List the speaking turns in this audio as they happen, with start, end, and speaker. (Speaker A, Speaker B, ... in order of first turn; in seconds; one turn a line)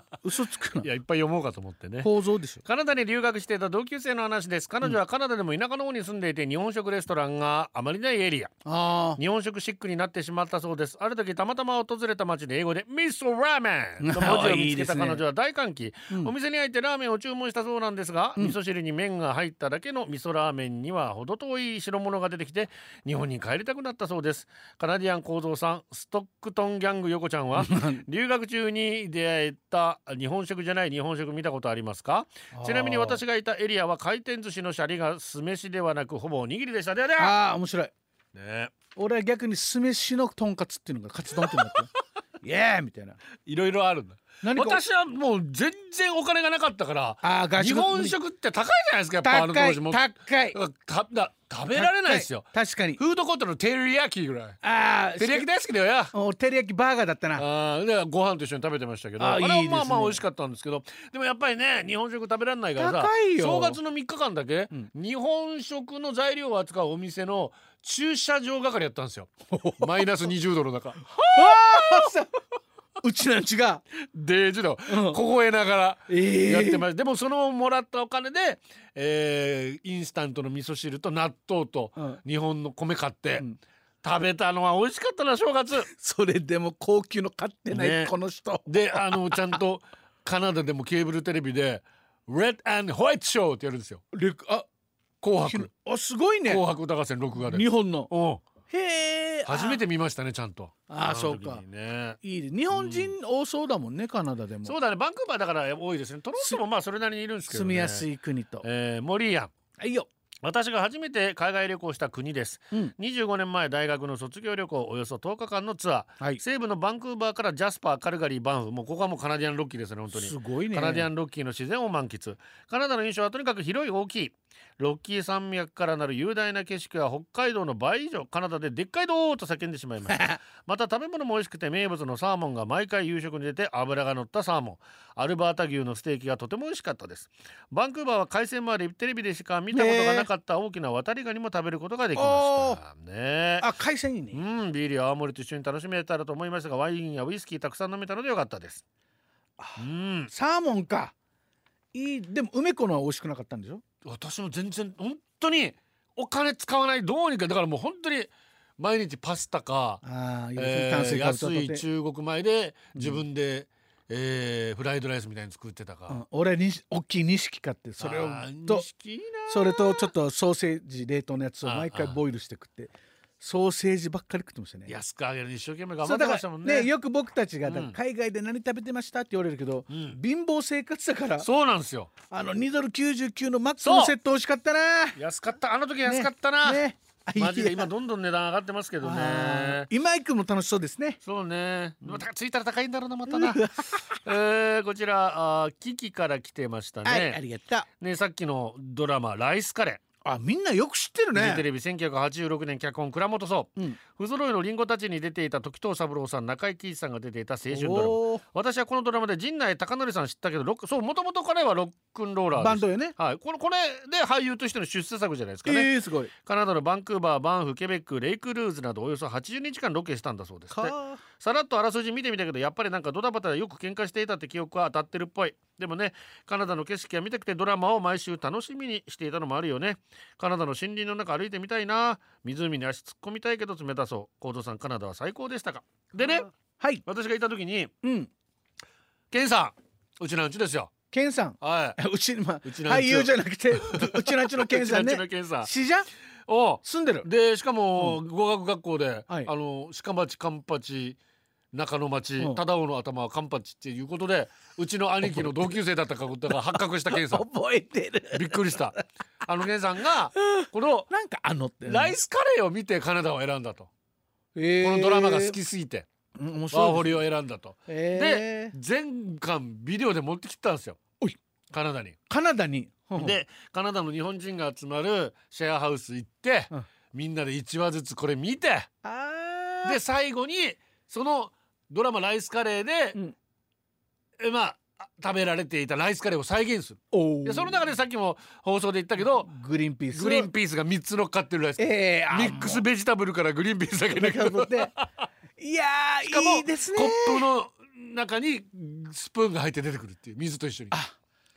Speaker A: 0.2-0.9
Speaker B: 0.8-2.1
Speaker A: 2.0-2.6
Speaker B: 2.6-8.6
Speaker A: 8.7-9.2
Speaker B: 9.2-37.4
Speaker A: 14.0-15.2
Speaker A: 27.6-28.0
Speaker A: 32.5-33.2
Speaker A: 37.2-37.9
Speaker B: 38.3-38.7
Speaker A: 39.0-41.9
Speaker A: 42.4-43.2
Speaker B: 43.5-54.6
Speaker A: 44.4-44.8
Speaker A: 47.2-48.2
Speaker A: 49.2-50.6
Speaker A: 51.7-53.0
Speaker A: 54.6-55.5
Speaker B: 55.2-56.1
Speaker A: 56.1-57.5
Speaker B: 57.4-72.1
Speaker A: 59.2-60.2
Speaker A: 62.8-63.8
Speaker A: 69.5-70.0
Speaker A: 71.2-72.3
Speaker A: 73.0-73.8
Speaker B: 74.0-83.5
Speaker A: 74.9-75.2
Speaker A: 76.1-76.9
Speaker B: 84.0-85.9
Speaker A: 85.9-89.6
Speaker B: 87.7-88.1
Speaker B: 88.7-94.0
Speaker A: 94.1-94.7
Speaker B: 95.2-95.7
Speaker A: 95.4-96.6
Speaker B: 96.5-98.4
Speaker A: 97.4-98.1
Speaker A: 98.7-99.8
Speaker B: 99.5-102.2
Speaker A: 100.9-101.6
Speaker A: 102.2-104.8
Speaker B: 102.7-103.1
Speaker B: 104.6-108.1
Speaker A: 107.5-108.7
Speaker B: 108.6-109.5
Speaker A: 109.8-110.1
Speaker B: 110.4-143.7
Speaker A: 120.1-121.1
Speaker A: 130.1-130.4
Speaker A: 139.7-140.3
Speaker A: 142.2-142.8
Speaker A: 143.6-144.4
Speaker B: 144.3-148.8
Speaker A: 149.6-151.1
Speaker B: 149.8-150.3
Speaker A: 151.9-153.8
Speaker B: 154.0-160.0
Speaker A: 160.0-161.8
Speaker B: 160.6-166.2
Speaker A: 163.0-163.2
Speaker A: 166.1-168.9
Speaker B: 168.0-170.1
Speaker A: 169.5-174.9
Speaker B: 171.6-172.2
Speaker B: 174.9-176.9
Speaker A: 176.0-181.5
Speaker B: 177.7-178.0
Speaker B: 179.9-180.2
Speaker B: 181.4-182.1
Speaker A: 182.3-185.2
Speaker B: 183.8-184.1
Speaker B: 185.2-186.8
Speaker A: 186.1-187.9
Speaker B: 187.4-189.9
Speaker A: 189.0-191.2
Speaker B: 191.2-193.7
Speaker A: 193.3-194.2
Speaker B: 194.2-197.4
Speaker A: 197.0-197.9
Speaker B: 198.0-200.0
Speaker A: 200.2-201.7
Speaker B: 201.3-215.9
Speaker A: 207.7-208.4
Speaker A: 212.6-213.2
Speaker A: 215.7-216.3
Speaker B: 216.4-236.5
Speaker A: 220.7-221.2
Speaker A: 236.2-237.0
Speaker B: 237.1-237.9
Speaker A: 238.0-238.3
Speaker B: 239.3-240.9
Speaker A: 241.1-246.1
Speaker B: 241.6-242.0
Speaker B: 242.6-245.7
Speaker B: 246.5-251.2
Speaker A: 246.8-247.3
Speaker B: 251.7-257.5
Speaker A: 255.2-255.7
Speaker A: 256.5-259.0
Speaker B: 258.3-261.1
Speaker A: 260.4-262.1
Speaker B: 261.9-263.9
Speaker A: 264.6-265.6
Speaker B: 264.8-266.1
Speaker A: 266.4-267.2
Speaker B: 266.7-271.0
Speaker A: 267.9-268.8
Speaker B: 271.7-272.2
Speaker A: 272.3-273.4
Speaker B: 273.2-278.9
Speaker A: 279.0-280.0
Speaker B: 279.8-283.2
Speaker B: 284.4-289.5
Speaker A: 287.1-287.9
Speaker A: 289.2-290.5
Speaker B: 290.1-295.1
Speaker A: 291.8-292.9
Speaker A: 294.1-294.9
Speaker A: 295.6-297.5
Speaker B: 296.2-301.0